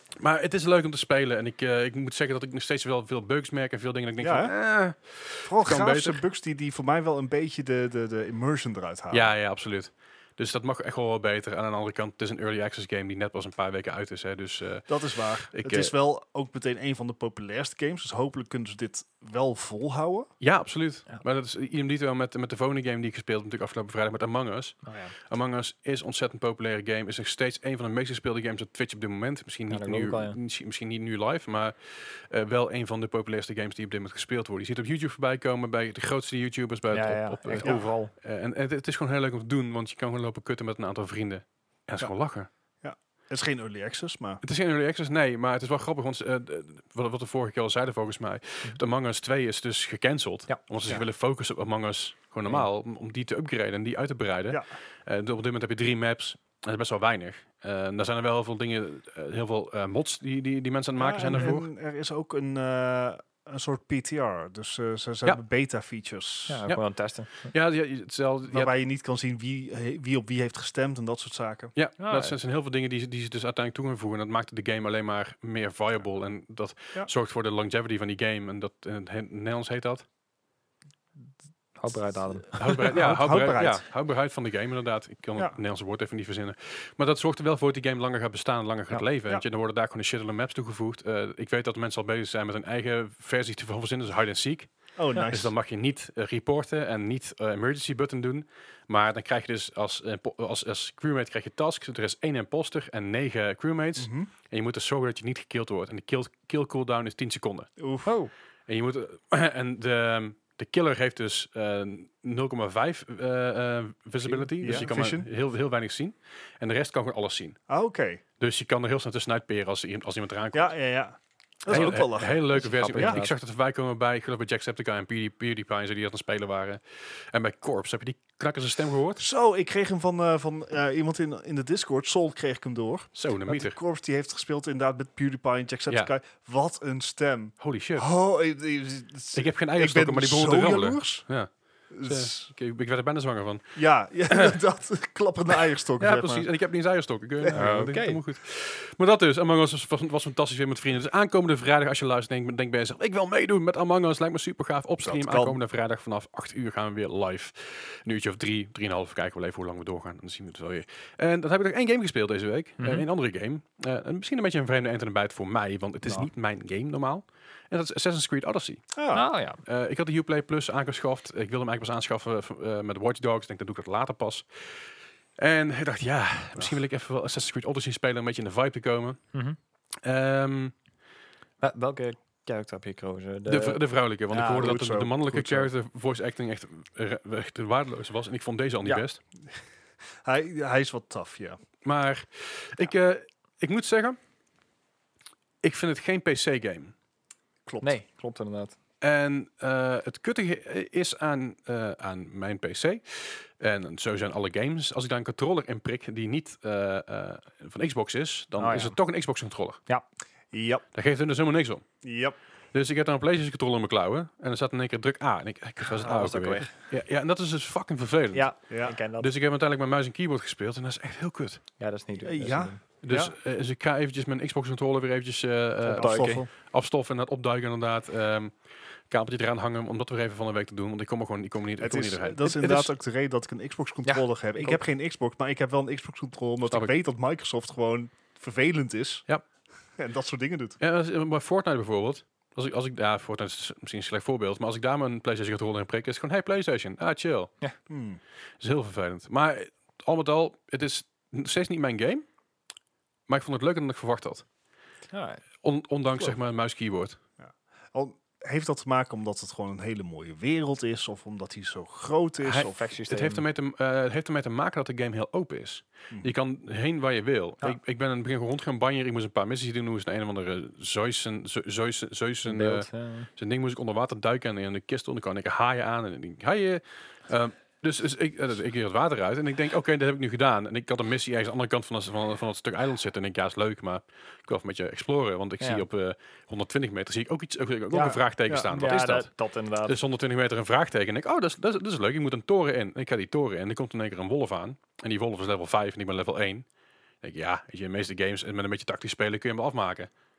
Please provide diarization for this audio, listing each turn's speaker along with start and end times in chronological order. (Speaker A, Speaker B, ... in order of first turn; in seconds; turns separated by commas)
Speaker A: 0.2-6.2, Speaker B: 4.2-4.6, Speaker B: 5.4-9.3, Speaker A: 9.1-15.9, Speaker B: 14.9-20.3, Speaker A: 20.4-42.5, Speaker C: 24.8-25.1, Speaker C: 29.7-30.4, Speaker C: 36.9-38.1, Speaker B: 37.6-37.9, Speaker B: 42.8-44.4, Speaker A: 44.4-61.7, Speaker B: 61.0-66.6, Speaker C: 66.5-67.5, Speaker A: 66.7-68.7, Speaker B: 68.5-71.7, Speaker A: 71.7-80.0, Speaker C: 72.0-72.3, Speaker C: 81.8-83.1, Speaker A: 82.6-107.7, Speaker B: 82.6-83.8, Speaker B: 95.0-95.5, Speaker B: 104.0-104.3, Speaker B: 107.8-108.1, Speaker C: 108.0-108.3, Speaker A: 108.7-117.6, Speaker C: 114.3-114.8, Speaker B: 114.6-115.3, Speaker B: 117.7-118.2, Speaker A: 118.4-120.8, Speaker B: 120.5-123.2, Speaker A: 121.7-129.2, Speaker C: 121.7-123.3, Speaker B: 129.2-141.3, Speaker A: 133.1-133.8, Speaker A: 137.6-138.1, Speaker A: 139.3-144.6, Speaker B: 141.9-142.5, Speaker B: 143.8-146.5, Speaker A: 146.0-168.9, Speaker B: 147.4-147.7, Speaker C: 147.5-148.2, Speaker B: 155.0-155.6, Speaker C: 162.8-163.0, Speaker B: 168.9-169.2, Speaker C: 169.1-169.6, Speaker A: 169.6-174.8, Speaker A: 175.4-179.3, Speaker A: 180.0-180.7, Speaker C: 181.6-183.8, Speaker A: 183.4-189.2, Speaker B: 184.3-185.7, Speaker B: 190.2-191.6, Speaker A: 191.8-194.2, Speaker A: 195.6-196.9, Speaker B: 197.6-197.9, Speaker C: 197.8-198.8, Speaker A: 199.0-209.8, Speaker C: 208.6-209.0, Speaker B: 210.5-210.8, Speaker A: 210.9-211.8, Speaker B: 212.0-212.4, Speaker A: 212.7-218.6, Speaker B: 216.0-216.3, Speaker C: 216.0-216.7, Speaker C: 218.3-219.3, Speaker B: 218.7-218.9, Speaker A: 219.2-221.6, Speaker C: 221.8-222.8, Speaker B: 222.2-223.3, Speaker A: 223.0-228.6, Speaker B: 225.8-226.5, Speaker C: 226.0-226.4, Speaker A: 229.1-232.9, Speaker B: 231.8-239.2, Speaker C: 234.0-234.8, Speaker B: 239.9-240.8, Speaker A: 240.8-247.5, Speaker B: 247.9-248.2, Speaker A: 248.6-252.2, Speaker A: 253.3-254.4, Speaker C: 255.1-255.4, Speaker A: 255.6-257.2, Speaker B: 257.4-262.8, Speaker A: 262.4-289.3, Speaker C: 262.5-263.4, Speaker C: 272.4-273.3, Speaker C: 285.6-285.9, Speaker B: 287.9-288.7, Speaker C: 288.7-290.0, Speaker A: 289.8-296.6, Speaker A: 297.2-300.1